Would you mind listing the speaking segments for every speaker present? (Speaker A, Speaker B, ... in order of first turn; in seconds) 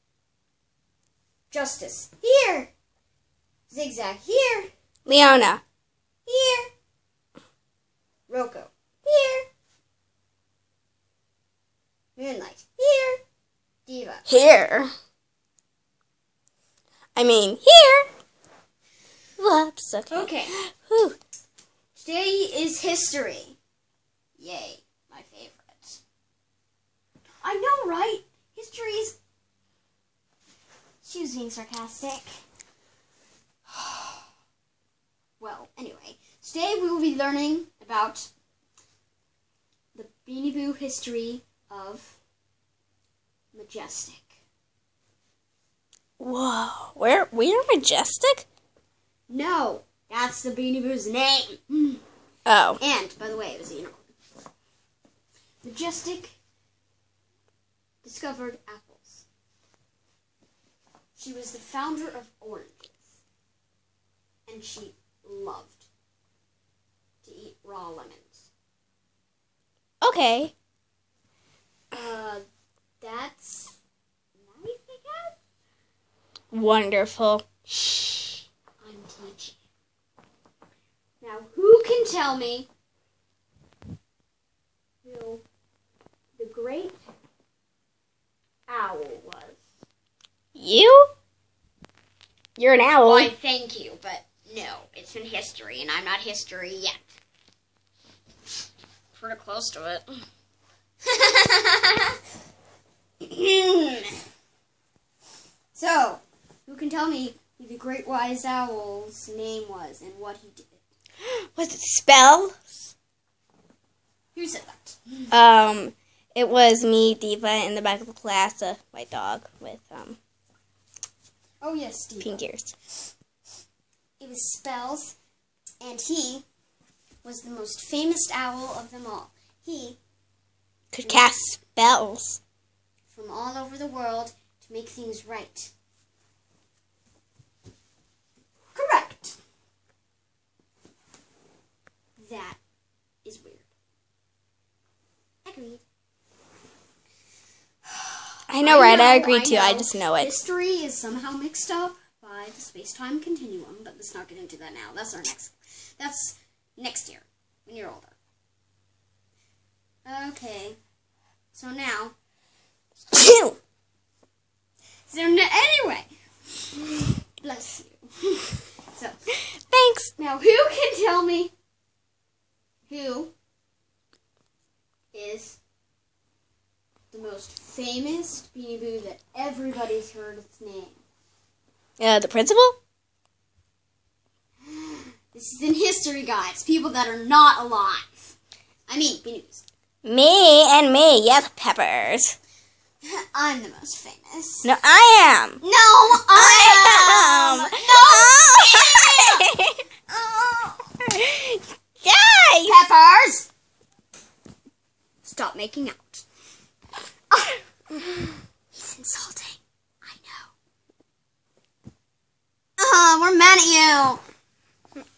Speaker A: 1.5-2.7, 3.7-4.7, 6.2-6.7, 8.3-9.5, 12.2-13.2, 13.8-14.2, 20.1-20.5, 21.9-23.6, 24.4-26.0, 27.4-29.2, 31.0-32.4, 33.7-34.2, 35.4-38.3, 39.9-42.2, 43.5-44.4, 49.3-52.0, 52.8-54.1, 55.6-56.3, 58.0-59.2, 61.1-63.2, 64.5-65.9, 67.2-68.5, 71.9-72.4, 73.0-73.8, 74.3-75.3, 77.7-79.6, 81.2-82.7, 85.0-85.4, 86.4-87.0, 88.7-89.6, 93.0-97.1, 99.1-100.2, 101.0-102.2, 103.2-104.2, 105.7-110.8, 114.3-115.3, 121.6-122.4, 124.2-125.2, 125.8-126.4, 127.2-130.0, 131.0-131.3, 133.1-135.7, 138.7-139.4, 142.2-142.6, 143.2-143.7, 145.4-145.8, 147.9-158.2, 160.0-160.8, 161.5-162.1, 165.1-166.1, 167.4-169.2, 170.2-171.5, 172.9-173.3, 175.1-175.6, 177.1-181.0, 184.6-188.3, 188.9-189.6, 193.0-194.7, 195.6-199.5, 200.1-200.9, 202.6-203.5, 205.2-206.2, 207.3-210.5, 212.8-214.2
Speaker B: 5.1-5.6, 14.2-14.9, 17.1-18.1, 19.4-21.2, 46.2-48.5, 52.5-52.8, 70.0-70.5, 76.5-77.5, 90.5-91.1, 92.6-93.3, 111.2-112.9, 115.3-120.2, 122.2-122.7, 130.9-132.4, 148.5-150.3, 163.1-163.6, 169.5-170.1, 182.0-182.8, 190.0-192.4, 194.6-195.6, 196.2-199.8, 201.0-202.8